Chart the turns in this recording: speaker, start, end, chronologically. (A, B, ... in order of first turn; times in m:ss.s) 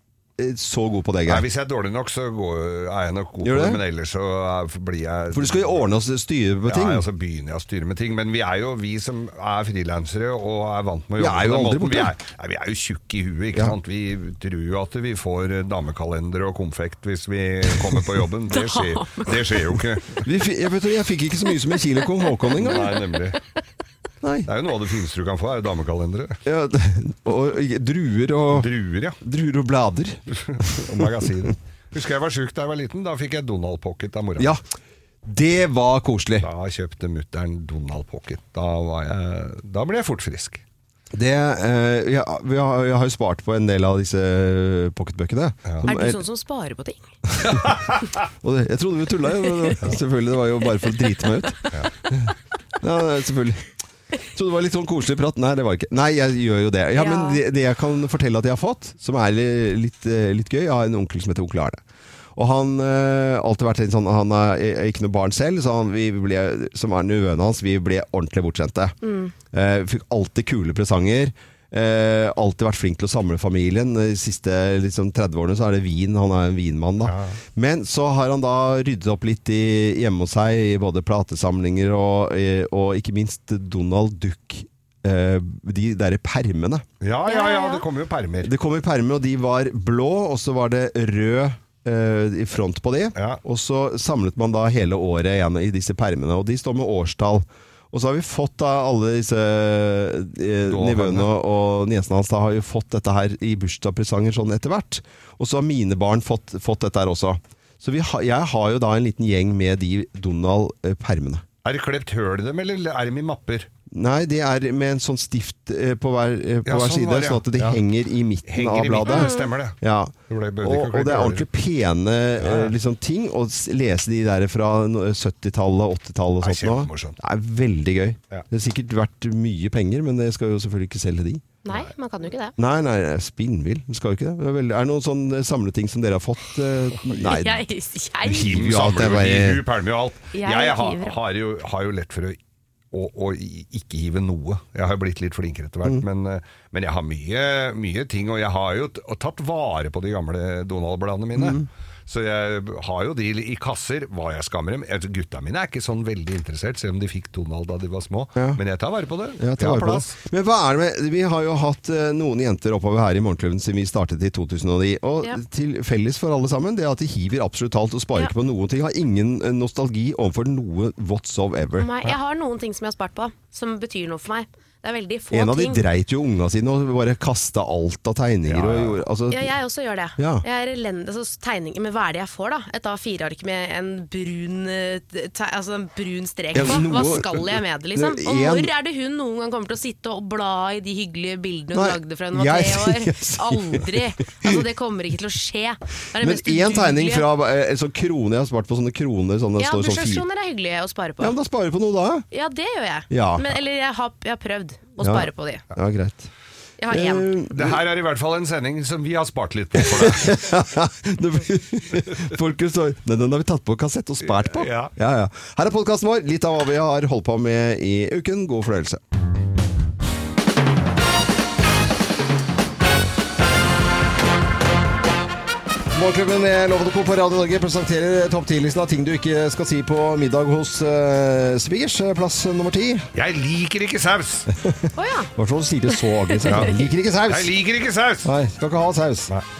0:00.4-0:01.4 A
0:01.3-0:05.9 B
0:03.4-0:03.8 A
0:05.3-0:07.0 A
0:06.6-0:20.2 B
0:11.2-0:12.1 A
0:17.7-0:18.0 A
0:18.5-0:19.6 C
0:20.2-0:23.0 A
0:22.6-0:23.4 B
0:24.2-0:24.5 A
0:24.4-0:26.4 B
0:26.4-0:28.7 A
0:28.5-0:29.2 B
0:29.2-0:31.1 A
0:30.3-0:34.5 B
0:34.4-0:34.6 A
0:35.2-0:36.5 A
0:36.4-0:40.6 B
0:41.1-0:46.2 A
0:45.8-0:47.0 C
0:47.3-0:47.7 A
0:47.4-0:47.9 B
0:48.4-0:53.6 A
0:54.2-1:01.8 A
0:56.9-0:57.4 C
1:02.3-1:09.0 A
1:09.0-1:09.3 C
1:09.5-1:26.8 A
1:17.0-1:17.4 B
1:27.0-1:28.5 B
1:27.3-1:27.8 C
1:28.4-1:51.4 A
1:40.7-1:41.3 B
1:51.6-1:53.7 B
1:53.9-2:11.4 A
1:56.6-1:57.8 B
1:58.4-1:59.8 B
1:59.1-1:59.5 C
2:00.3-2:01.4 B
2:02.4-2:02.7 B
2:06.4-2:07.2 B
2:11.6-2:12.5 C
2:12.6-2:17.7 A
2:17.2-2:18.5 C
2:18.2-2:19.6 A
2:18.4-2:22.4 B
2:20.3-2:21.2 C
2:22.9-2:40.2 B
2:31.3-2:31.7 A
2:39.4-2:52.1 A
2:51.8-2:55.8 C
2:55.3-2:59.5 A
2:58.4-2:59.0 B
2:59.3-3:17.3 C
3:00.2-3:00.4 A
3:06.5-3:08.7 A
3:11.7-3:14.6 A
3:16.2-3:20.2 A
3:19.6-3:21.3 C
3:21.2-3:22.2 A
3:22.3-3:25.6 C
3:23.1-3:23.5 A
3:25.0-3:26.3 A
3:26.8-3:27.3 C
3:26.9-3:27.8 A
3:27.5-3:30.3 B
3:29.7-3:39.0 A
3:34.4-3:34.9 B
3:45.9-3:53.1 A
3:53.1-3:54.5 B
3:54.5-3:57.5 A
3:54.9-3:55.3 C
3:55.9-3:56.8 C
3:56.4-3:56.7 B
3:57.3-3:58.3 B
3:58.2-3:59.3 A